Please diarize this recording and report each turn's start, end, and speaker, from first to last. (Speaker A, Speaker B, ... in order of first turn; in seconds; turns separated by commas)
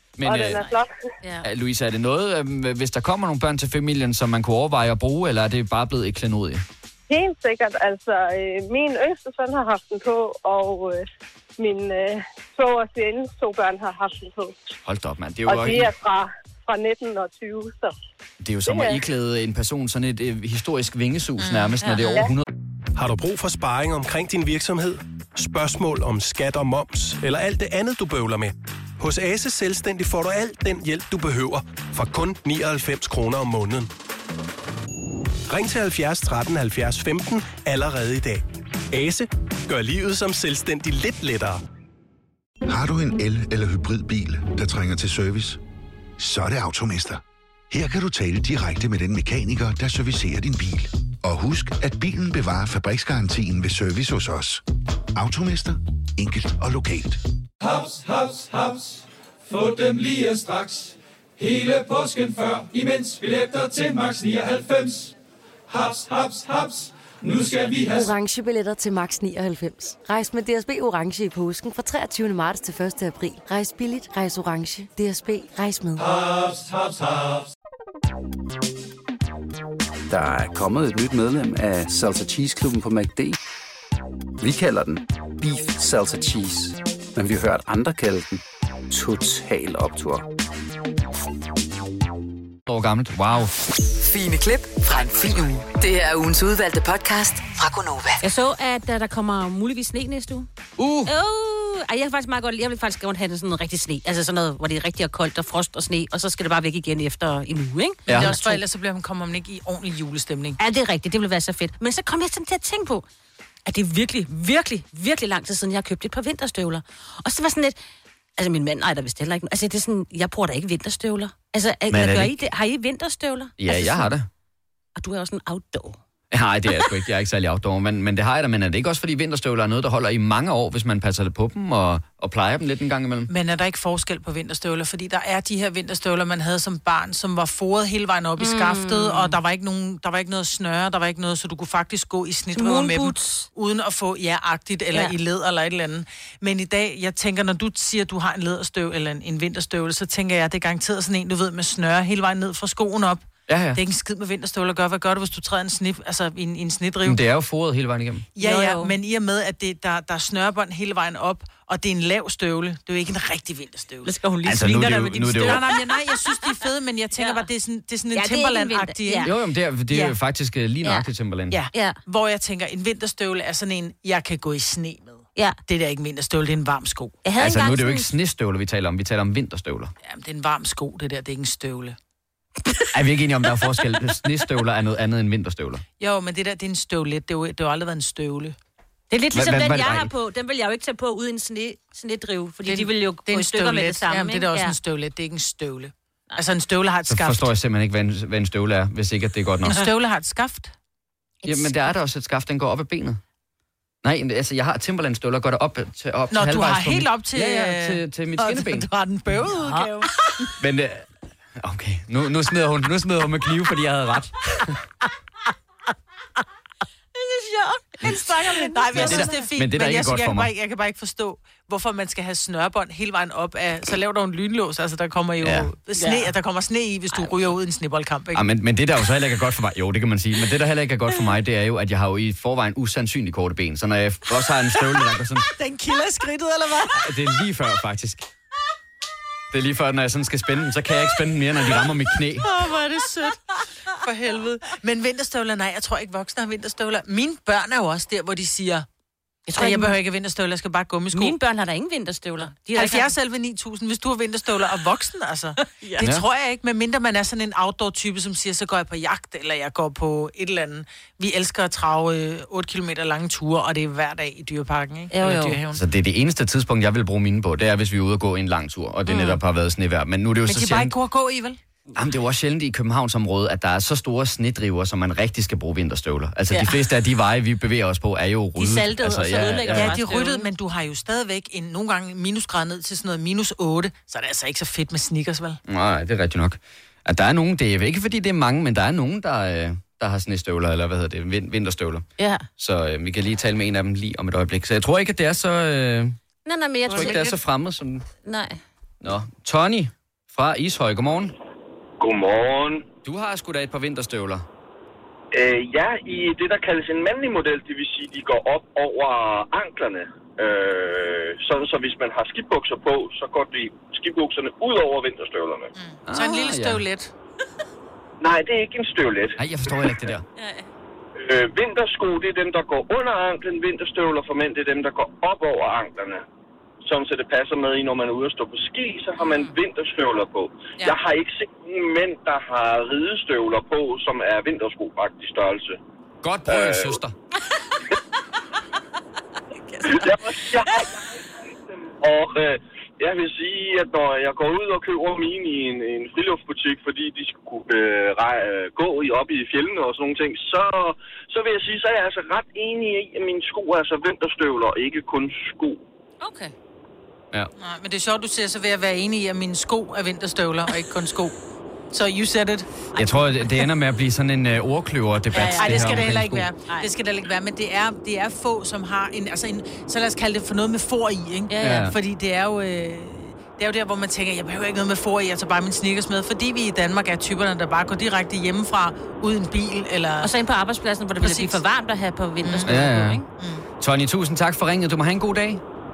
Speaker A: 0.2-0.6, Speaker B: 0.2-0.9, Speaker C: 0.5-1.4, Speaker A: 1.4-6.6, Speaker B: 7.1-11.0, Speaker B: 11.6-14.5, Speaker A: 14.8-15.9, Speaker B: 15.4-17.9, Speaker A: 18.4-22.4, Speaker B: 18.6-19.0, Speaker D: 21.4-22.1, Speaker C: 21.8-22.1, Speaker E: 22.9-33.9, Speaker E: 35.5-38.4, Speaker E: 38.9-41.6, Speaker F: 42.7-45.6, Speaker F: 46.2-54.6, Speaker F: 55.1-57.2, Speaker G: 59.6-60.9, Speaker G: 61.4-64.9, Speaker G: 66.0-66.5, Speaker H: 67.9-76.0, Speaker I: 80.1-83.4, Speaker I: 84.4-90.2, Speaker A: 92.7-93.5, Speaker J: 93.9-98.2, Speaker C: 98.2-100.5, Speaker A: 100.8-101.1, Speaker C: 101.0-108.6, Speaker A: 108.1-108.3, Speaker D: 108.1-110.6, Speaker C: 110.6-113.0, Speaker C: 113.7-117.7, Speaker C: 118.4-124.1, Speaker A: 121.9-122.3, Speaker A: 123.6-124.3, Speaker C: 125.0-126.0, Speaker A: 126.3-133.3, Speaker D: 133.3-157.2, Speaker C: 138.4-139.3, Speaker C: 142.5-143.5, Speaker A: 153.5-153.8, Speaker A: 157.0-158.2, Speaker D: 158.3-164.1, Speaker C: 158.4-158.9, Speaker C: 164.0-165.8, Speaker A: 164.4-165.7, Speaker D: 164.8-170.2, Speaker C: 167.2-167.5, Speaker C: 168.1-169.3, Speaker A: 169.2-171.6, Speaker C: 170.8-171.1, Speaker D: 171.5-177.1, Speaker C: 177.2-178.1, Speaker A: 177.4-179.9, Speaker D: 180.0-181.9, Speaker A: 182.9-185.8, Speaker D: 186.0-188.6, Speaker C: 189.1-194.8, Speaker A: 189.3-190.1, Speaker D: 192.7-197.5, Speaker A: 197.1-199.8, Speaker D: 199.6-200.7, Speaker C: 201.4-201.9, Speaker A: 201.4-203.2, Speaker A: 204.0-208.9, Speaker D: 206.3-210.6, Speaker C: 209.5-210.2, Speaker A: 210.6-211.1, Speaker A: 211.6-214.8, Speaker D: 217.5-228.4, Speaker C: 218.0-219.5, Speaker A: 218.9-220.5, Speaker A: 225.4-225.7, Speaker C: 226.0-226.3, Speaker C: 227.1-227.5, Speaker A: 228.3-235.5, Speaker D: 234.5-237.3, Speaker A: 236.9-238.2, Speaker A: 239.5-242.5, Speaker D: 241.6-248.8, Speaker C: 242.4-243.3, Speaker C: 249.5-250.0, Speaker D: 249.5-251.3, Speaker C: 251.1-253.1, Speaker D: 252.6-265.8, Speaker C: 255.6-256.1, Speaker C: 265.1-265.6, Speaker A: 265.8-270.9, Speaker C: 269.1-269.4, Speaker D: 270.4-271.6, Speaker A: 271.9-280.0, Speaker D: 276.5-276.8, Speaker C: 278.6-280.5, Speaker D: 279.0-285.6, Speaker A: 285.7-292.0, Speaker C: 292.2-292.4, Speaker A: 292.6-296.2, Speaker C: 296.4-297.4, Speaker A: 296.9-298.1, Speaker C: 298.2-298.6, Speaker A: 299.0-301.3, Speaker K: 302.0-302.9, Speaker A: 303.0-304.4, Speaker K: 305.3-315.7, Speaker D: 315.8-317.1, Speaker A: 316.1-316.8, Speaker K: 318.2-320.0, Speaker A: 319.4-320.2, Speaker C: 320.4-320.7, Speaker K: 321.2-326.2, Speaker K: 326.9-335.8, Speaker C: 329.2-329.6, Speaker A: 336.2-337.1, Speaker K: 336.5-337.0, Speaker K: 339.8-341.1, Speaker K: 341.7-355.8, Speaker C: 356.2-356.5, Speaker D: 357.6-361.3, Speaker D: 361.9-362.7, Speaker C: 362.9-363.5, Speaker A: 362.9-366.5, Speaker D: 365.3-380.3, Speaker C: 365.3-366.0, Speaker C: 371.5-371.9, Speaker A: 371.6-371.9, Speaker C: 380.2-383.2, Speaker D: 381.1-381.6, Speaker D: 382.4-383.6, Speaker A: 382.6-383.2, Speaker A: 383.8-385.6